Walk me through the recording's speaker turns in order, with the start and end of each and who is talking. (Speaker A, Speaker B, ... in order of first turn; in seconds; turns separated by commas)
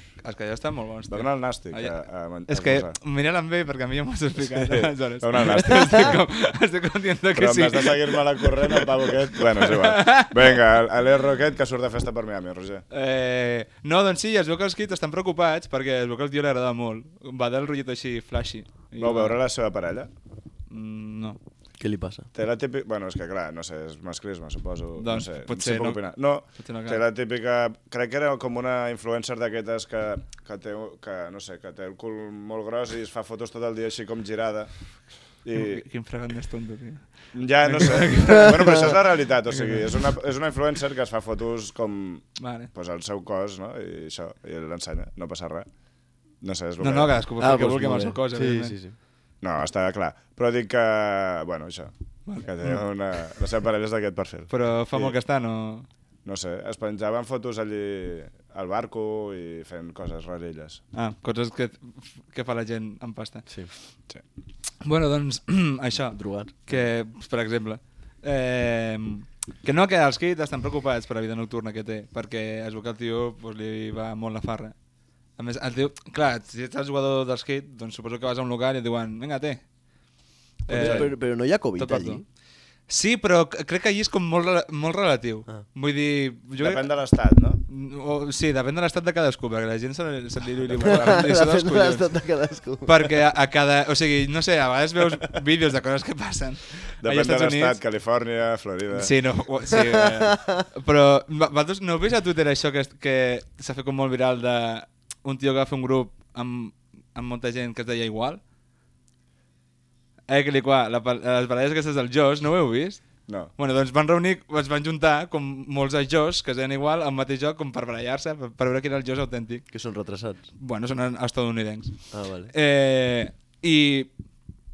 Speaker A: 0.2-2.0, Speaker B: 1.1-3.0, Speaker A: 2.5-10.5, Speaker B: 4.5-6.2, Speaker B: 7.3-12.8, Speaker A: 12.9-19.4, Speaker B: 19.0-20.1, Speaker A: 20.7-21.4, Speaker C: 21.8-22.3, Speaker B: 22.3-34.7, Speaker A: 25.0-26.0, Speaker A: 26.6-27.0, Speaker B: 35.4-35.8, Speaker A: 35.5-39.0, Speaker B: 37.3-45.7, Speaker A: 42.4-42.7, Speaker B: 46.4-47.1, Speaker A: 46.8-48.8, Speaker C: 47.4-49.0, Speaker B: 49.4-55.2, Speaker A: 52.3-52.5, Speaker A: 54.5-55.9, Speaker B: 56.2-60.8, Speaker A: 60.9-63.5, Speaker A: 64.8-74.7, Speaker C: 66.1-66.6, Speaker A: 75.4-79.6, Speaker A: 80.7-82.2, Speaker C: 80.7-82.2, Speaker B: 80.7-81.1, Speaker A: 82.9-86.9, Speaker B: 86.6-87.6, Speaker A: 87.7-92.1, Speaker B: 90.7-91.2, Speaker C: 90.8-93.1, Speaker A: 92.8-97.8, Speaker B: 97.0-99.1, Speaker A: 98.9-108.4, Speaker C: 99.8-100.7, Speaker A: 110.3-119.7, Speaker C: 119.7-120.4, Speaker A: 120.6-124.1, Speaker C: 122.1-122.5